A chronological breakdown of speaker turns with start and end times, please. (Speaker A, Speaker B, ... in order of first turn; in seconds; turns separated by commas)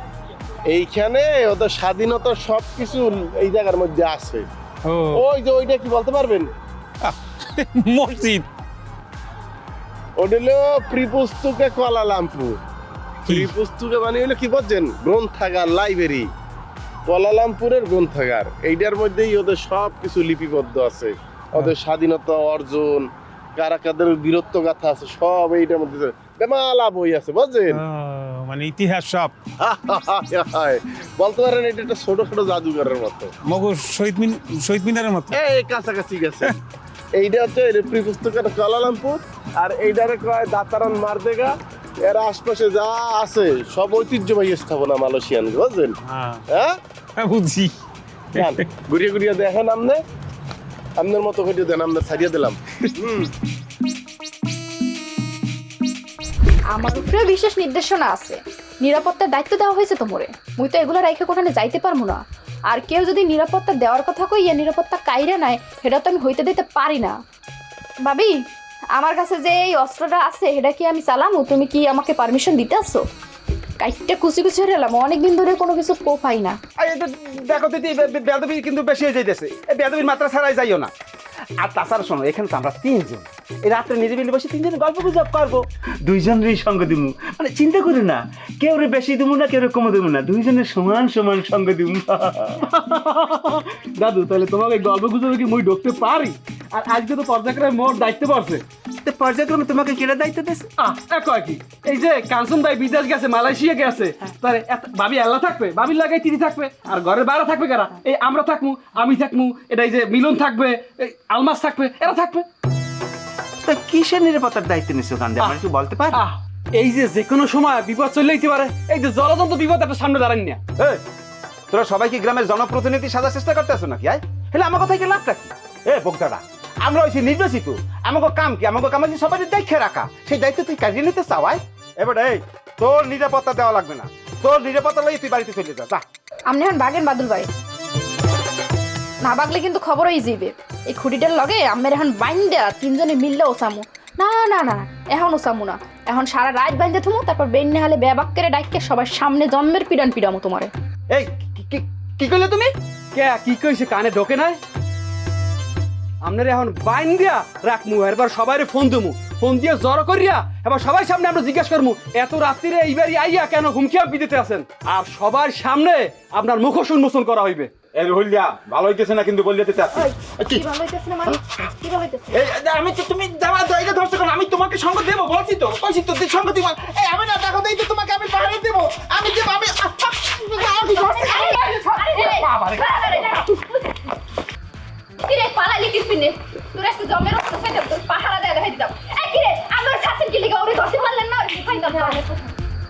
Speaker A: 0.7-4.5, Speaker B: 4.8-5.2, Speaker A: 5.1-6.5, Speaker B: 7.0-8.4, Speaker A: 10.2-12.6, Speaker A: 13.3-16.3, Speaker A: 17.1-27.8, Speaker B: 27.7-29.3, Speaker A: 29.6-33.3, Speaker B: 33.4-35.4, Speaker A: 35.3-36.6, Speaker A: 37.1-45.9, Speaker B: 46.0-46.4, Speaker A: 46.5-46.8, Speaker B: 47.2-47.7, Speaker A: 48.3-50.0, Speaker A: 51.0-53.3, Speaker C: 56.7-67.2, Speaker C: 68.0-68.3, Speaker C: 69.0-73.0, Speaker C: 73.8-76.5, Speaker D: 76.8-80.9, Speaker D: 81.6-92.6, Speaker E: 92.7-98.6, Speaker D: 99.0-100.7, Speaker E: 100.8-112.4, Speaker D: 113.6-116.2, Speaker E: 116.1-120.6, Speaker D: 121.7-136.0, Speaker C: 136.5-137.5, Speaker C: 139.2-150.7, Speaker D: 151.1-152.7, Speaker E: 153.1-154.6, Speaker E: 156.2-167.7, Speaker D: 167.9-170.6, Speaker C: 169.9-172.4, Speaker D: 172.3-183.4, Speaker C: 180.8-183.8, Speaker C: 185.2-192.5